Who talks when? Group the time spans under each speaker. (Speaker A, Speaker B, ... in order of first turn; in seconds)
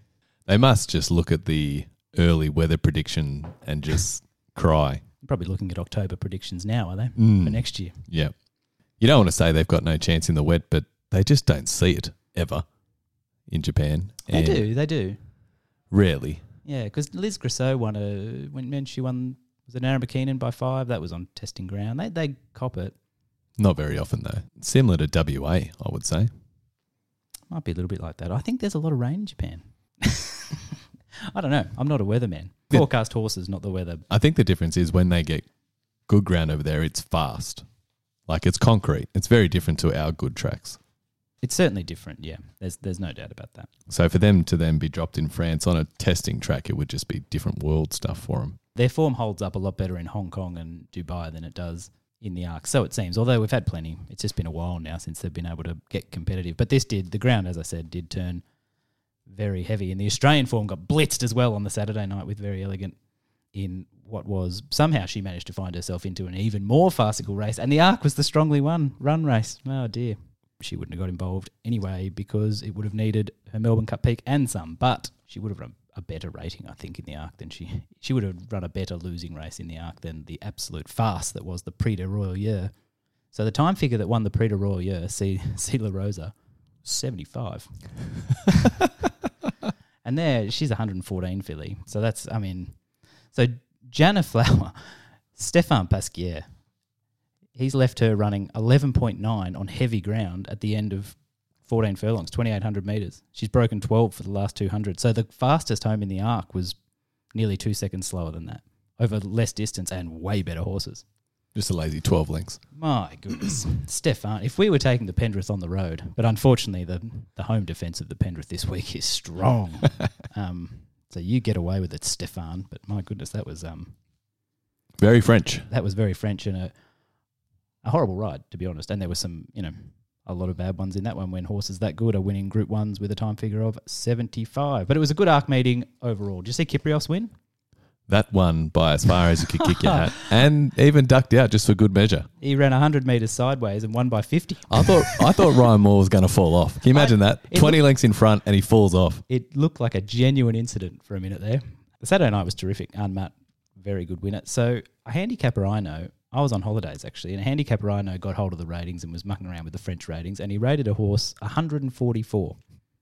Speaker A: 0.5-5.0, 7.2-8.3, 9.0-12.6, 13.5-14.7, 15.9-16.4, 23.6-26.3, 34.1-35.5, 36.1-37.6, 38.3-40.8, 43.9-48.6, 111.5-112.6, 125.0-125.7, 138.1-142.3, 144.7-149.2
Speaker B: 5.2-8.0, 14.3-15.2, 16.6-22.9, 27.5-34.0, 41.4-43.7, 48.7-58.4, 59.3-63.0, 63.5-82.7, 83.3-88.2, 90.0-92.8, 93.3-96.4, 97.5-106.8, 107.3-111.0, 112.7-123.9, 125.7-126.7, 127.8-137.3, 139.6-140.2, 142.4-145.6, 146.9-147.8, 149.3-162.6